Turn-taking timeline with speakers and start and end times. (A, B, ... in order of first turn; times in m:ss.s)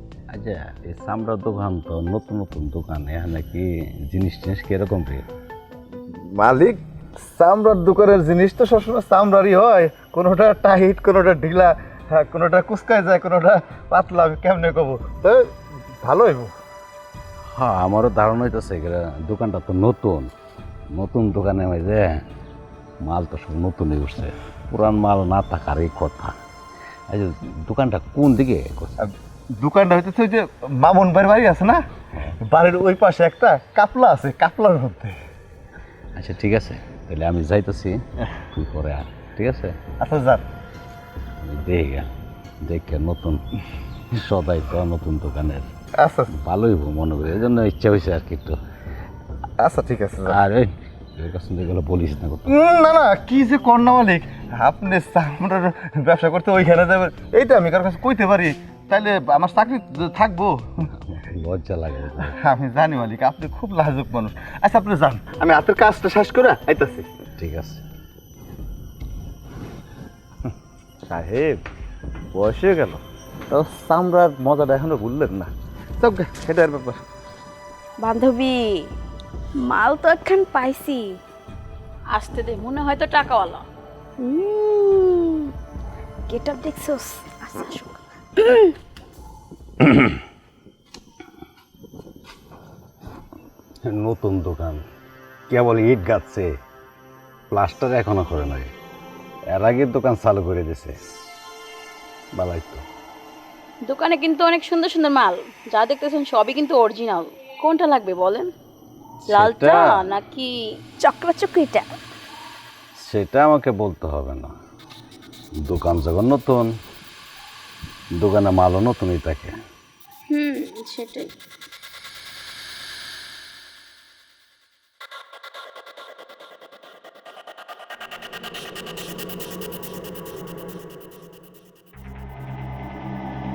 0:00.3-0:05.3 A
0:06.3-0:06.8 B
0:07.3-0:15.5 B
0:16.0-0:16.5 B
0:17.5-0:20.3 A
0:20.9-0:22.2 A
0:23.0-0:26.3 A
0:27.1-0:28.9 A
0:29.0-0:31.8 B
0:32.4-0:35.2 B
0:36.2-0:39.8 A
0:40.0-0:40.4 B
0:41.4-0:42.1 A
0:42.6-0:43.4 A
0:44.1-0:45.7 A
0:46.0-0:46.3 B
0:46.3-0:48.6 A
0:49.6-0:50.4 B
0:50.2-0:52.6 A
0:52.5-1:00.6 B
1:01.0-1:02.4 A
1:02.2-1:07.1 B
1:07.4-1:07.8 A
1:11.1-1:11.6 B
1:12.3-1:17.0 B
1:18.0-1:18.9 C
1:19.6-1:21.2 C
1:22.1-1:23.6 D
1:24.2-1:25.5 C
1:26.3-1:28.7 C
1:29.8-1:30.2 A
1:33.8-1:34.8 A
1:35.5-1:36.5 A
1:37.5-1:38.7 A
1:39.5-1:41.0 A
1:42.4-1:42.8 A
1:43.8-1:48.5 D
1:49.2-1:50.0 A
1:49.3-1:50.5 D
1:51.0-1:51.8 C
1:53.0-1:54.5 A
1:55.6-1:56.7 A
1:58.2-1:59.5 A
2:00.3-2:01.3 D